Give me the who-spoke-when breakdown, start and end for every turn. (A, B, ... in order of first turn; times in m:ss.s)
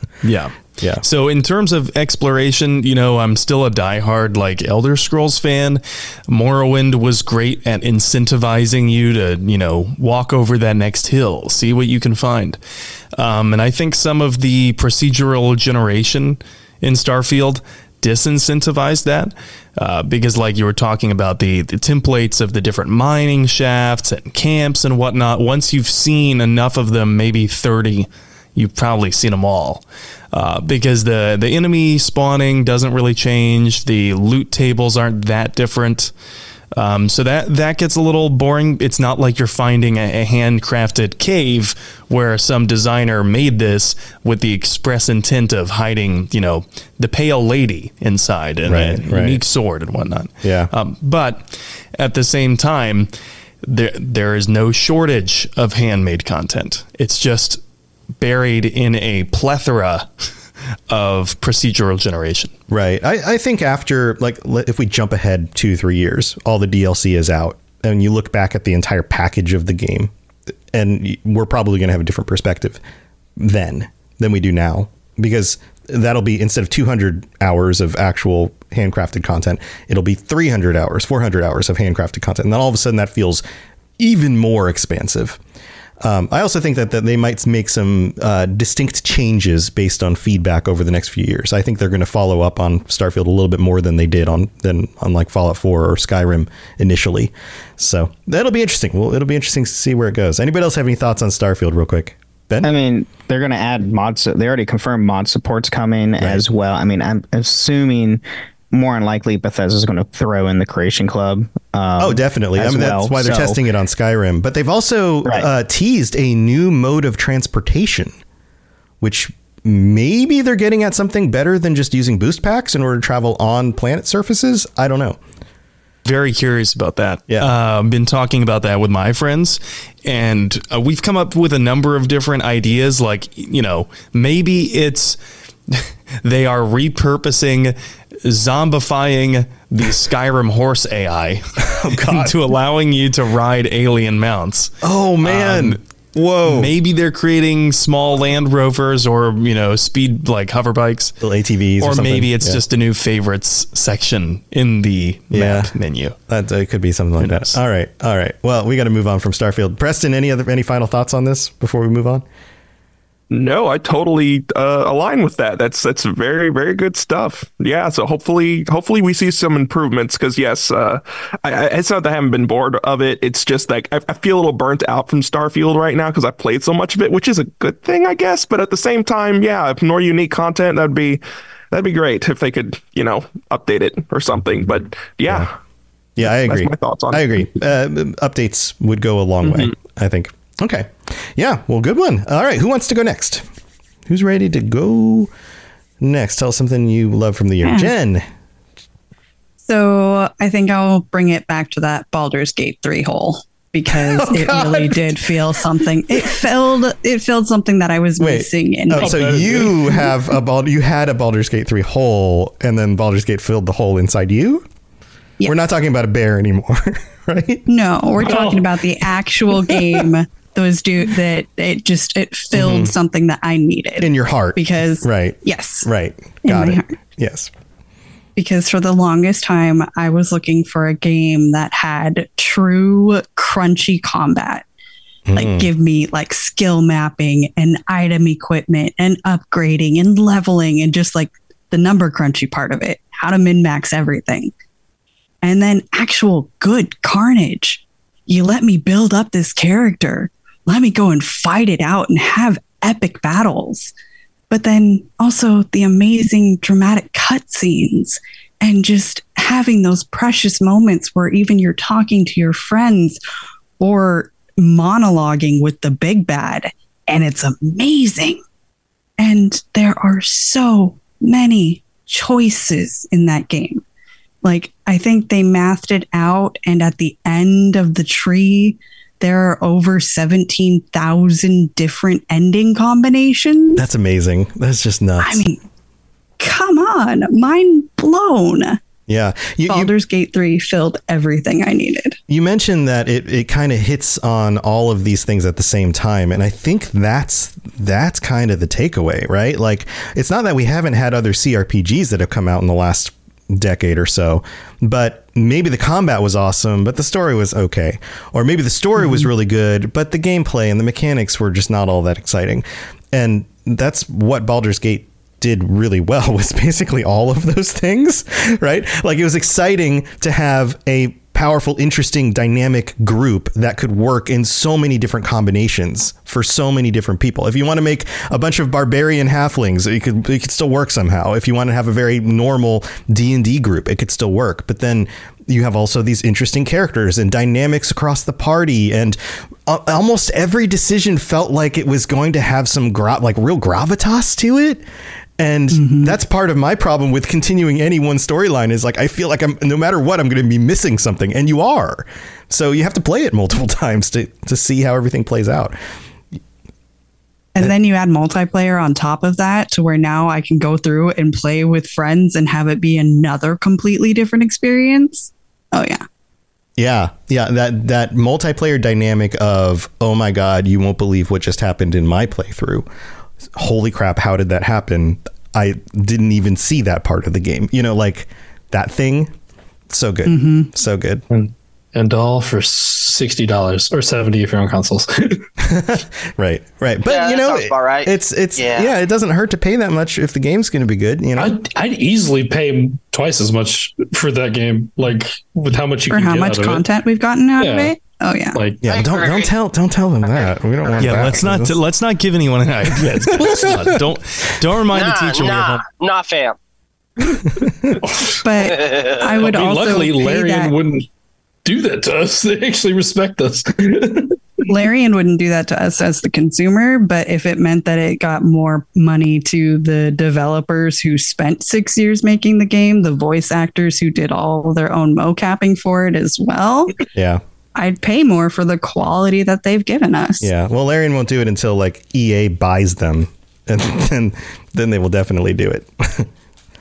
0:00.2-0:12.6 A
0:13.2-0:36.1 A
0:36.7-0:53.1 A
0:48.6-0:49.4 B
0:50.4-0:50.7 B
0:53.6-0:57.6 A
0:58.2-1:00.1 A
1:00.9-1:02.5 A
1:02.7-1:10.1 B
1:10.7-1:12.8 B
1:13.4-1:23.4 B
1:24.0-1:25.4 B
1:26.0-1:42.7 B
1:42.6-1:53.6 C
1:46.2-1:46.4 B
1:52.0-1:58.2 B
1:59.0-2:05.2 B
2:06.0-2:15.2 A
2:15.7-2:24.7 A
2:21.7-2:22.3 B
2:24.8-2:26.7 B
2:25.2-2:25.8 A
2:26.4-2:31.1 A
2:31.2-2:32.6 B
2:31.8-2:36.1 A
2:35.3-2:35.7 B
2:36.3-2:42.2 B
2:37.2-2:37.6 A
2:43.3-3:01.2 D
3:01.7-3:05.5 D
3:06.2-3:13.4 B
3:06.2-3:07.5 D
3:09.4-3:09.7 D
3:14.1-3:15.3 B
3:16.0-3:18.2 B
3:17.6-3:17.9 E
3:19.6-3:29.2 E
3:23.9-3:25.2 B
3:28.2-3:34.6 B
3:29.0-3:29.8 F
3:35.4-3:37.6 B
3:37.7-3:45.9 E
3:38.2-3:38.7 F
3:42.5-3:42.9 B
3:44.0-3:47.5 B
3:46.4-3:46.9 E
3:48.4-3:54.6 E
3:55.3-3:55.7 B
3:55.3-4:04.5 E
4:05.4-4:13.9 E
4:14.5-4:23.2 E
4:23.8-4:28.4 E
4:29.2-4:33.8 E
4:34.4-4:43.8 E
4:43.8-4:45.4 B
4:45.2-4:45.6 E
4:46.4-4:48.8 E
4:49.1-4:49.9 B
4:49.7-4:52.2 E
4:52.3-5:44.8 B
5:45.4-5:55.8 B
5:45.7-5:46.1 E
5:57.5-6:06.0 E
6:06.8-6:12.8 B
6:13.5-6:19.3 B
6:19.9-6:21.2 B
6:20.2-6:20.7 E
6:21.3-6:25.4 F
6:25.6-6:31.6 B
6:27.0-6:28.9 G
6:31.4-6:36.8 F
6:36.1-6:38.6 E
6:37.6-6:37.9 F
6:38.5-6:38.8 F
6:38.8-6:41.8 B
6:38.8-6:39.5 G
6:41.0-6:45.8 A
6:42.9-6:44.1 B
6:44.9-6:46.6 G
6:47.4-6:48.0 B
6:48.0-6:48.3 F
6:48.4-6:50.7 E
6:48.6-6:49.3 G
6:49.4-6:51.0 F
6:51.6-6:54.4 F
6:54.7-7:06.9 E
7:07.1-7:07.4 B
7:07.7-7:10.5 E
7:10.4-7:16.3 B